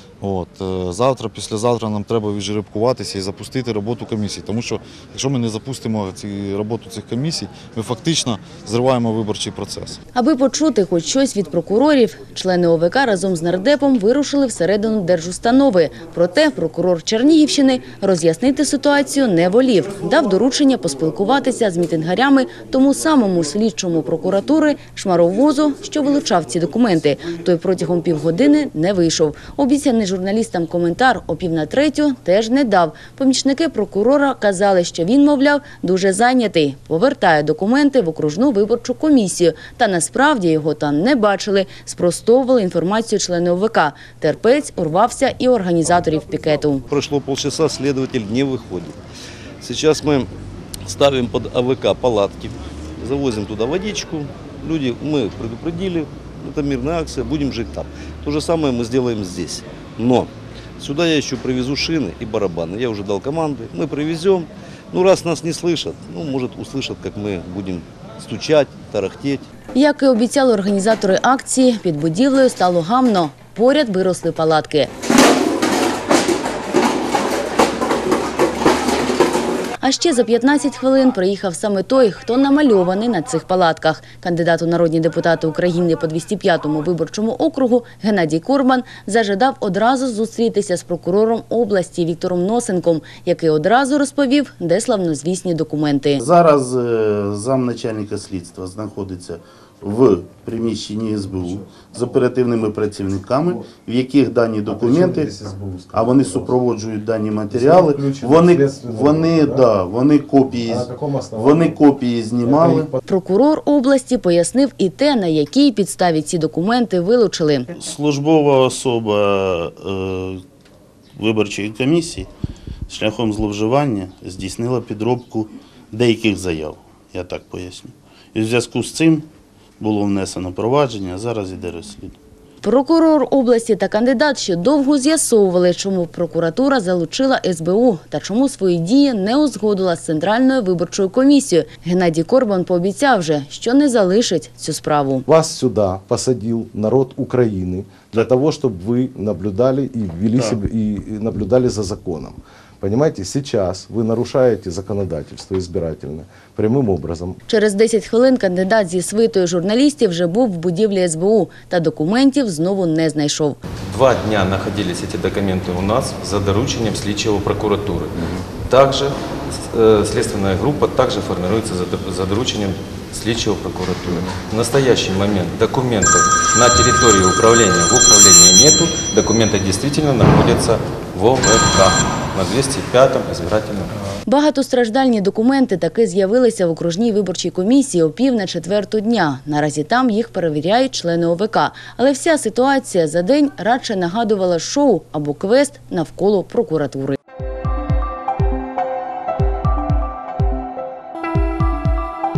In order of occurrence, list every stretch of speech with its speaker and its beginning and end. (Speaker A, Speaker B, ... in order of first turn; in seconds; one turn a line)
Speaker A: 0.2-10.0
Speaker B: 10.1-46.8
Speaker C: 46.9-49.0
Speaker C: 49.6-50.3
Speaker C: 50.9-69.5
Speaker B: 69.7-74.9
Speaker B: 79.8-96.2
Speaker D: 96.2-112.9
Speaker E: 104.7-106.5
Speaker E: 107.5-109.6
Speaker E: 110.6-111.8
Speaker E: 112.4-113.0
Speaker B: 113.1-117.7
Speaker D: 117.7-120.4
Speaker D: 121.2-122.3
Speaker D: 122.9-129.3
Speaker D: 129.8-132.2
Speaker B: 132.6-145.2
Speaker E: 145.3-157.4
Speaker B: 157.5-163.6
Speaker F: 163.8-183.9
Speaker B: 184.2-197.2